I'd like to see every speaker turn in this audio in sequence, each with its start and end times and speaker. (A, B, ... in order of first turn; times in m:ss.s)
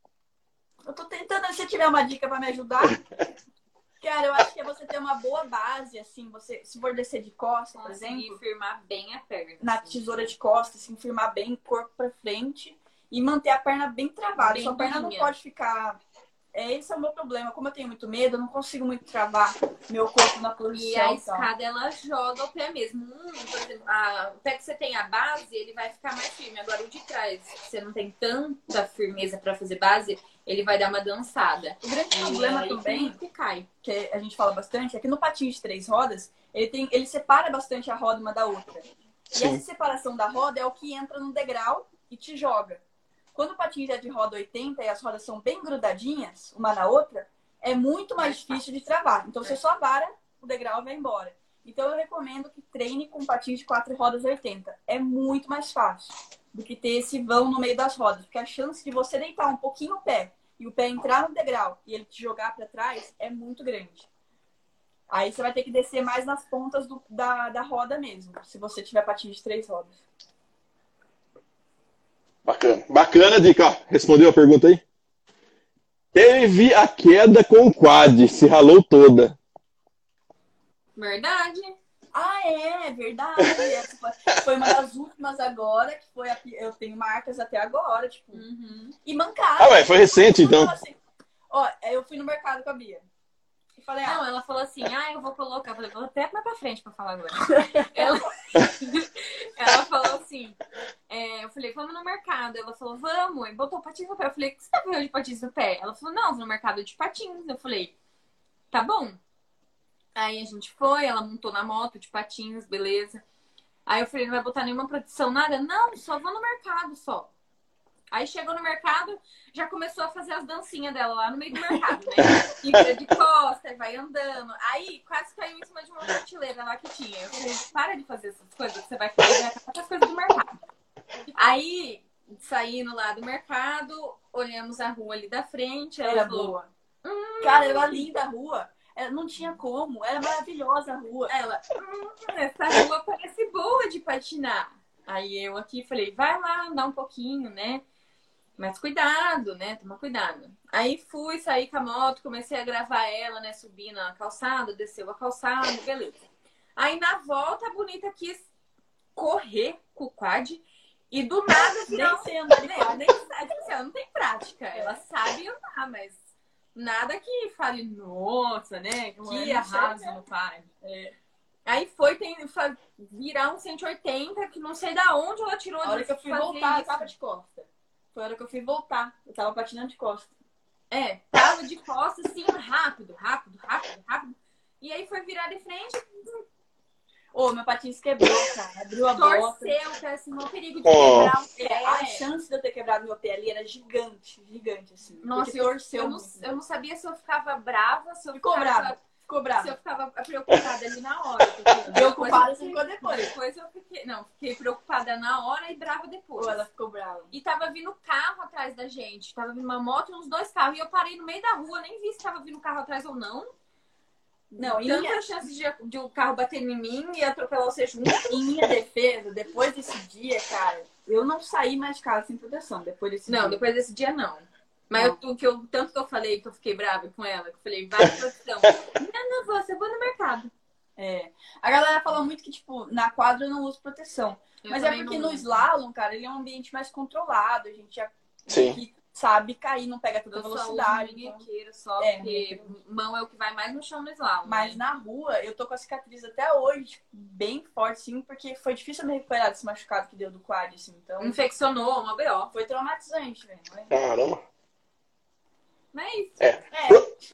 0:00.9-0:03.0 A
0:04.0-0:08.4 A
0:07.8-0:10.3 B
0:09.6-0:16.0 A
0:14.4-0:15.3 B
0:16.5-0:21.5 A
0:20.7-0:33.7 B
0:31.8-0:33.2 A
0:33.8-0:42.8 A
0:39.3-0:39.6 C
0:43.4-1:04.1 A
0:48.2-0:48.5 B
1:05.1-1:10.0 A
1:12.4-1:14.8 C
1:16.1-1:19.4 C
1:21.0-1:21.8 B
1:22.1-1:28.4 A
1:23.4-1:23.7 C
1:28.3-1:29.0 B
1:29.0-1:31.0 A
1:29.6-1:30.7 C
1:31.5-1:33.0 A
1:33.8-1:34.2 A
1:34.0-1:48.0 B
1:37.6-1:38.1 A
1:48.7-1:49.2 B
1:50.2-1:53.2 B
1:53.9-1:57.3 B
1:58.1-2:10.6 B
2:02.2-2:02.9 C
2:11.3-2:18.1 B
2:16.0-2:16.7 A
2:17.4-2:21.3 A
2:21.3-2:27.8 B
2:28.6-2:36.2 B
2:36.8-2:38.4 B
2:39.2-2:46.2 B
2:41.5-2:43.1 A
2:44.7-2:45.0 A
2:46.8-2:50.7 B
2:49.2-2:50.2 A
2:50.8-2:51.1 A
2:51.7-2:57.1 B
2:55.8-3:00.3 A
3:00.9-3:06.4 B
3:07.3-3:09.8 A
3:09.2-3:12.2 B
3:10.8-3:11.3 C
3:11.5-3:16.4 A
3:15.2-3:19.0 B
3:18.4-3:19.7 A
3:19.6-3:26.7 B
3:21.4-3:22.0 C
3:21.9-3:23.3 A
3:26.4-3:27.3 A
3:27.3-3:33.5 B
3:34.5-3:38.4 B
3:34.6-3:35.3 A
3:38.2-3:43.6 A
3:43.3-3:50.5 B
3:51.0-4:01.4 A
3:54.6-3:55.6 B
3:58.5-3:58.8 C
4:00.3-4:04.8 B
4:02.0-4:02.7 A
4:04.4-4:11.4 A
4:11.2-4:12.5 B
4:12.5-4:13.9 A
4:13.9-4:14.4 C
4:15.9-4:16.4 B
4:16.4-4:17.1 C
4:16.7-4:17.2 A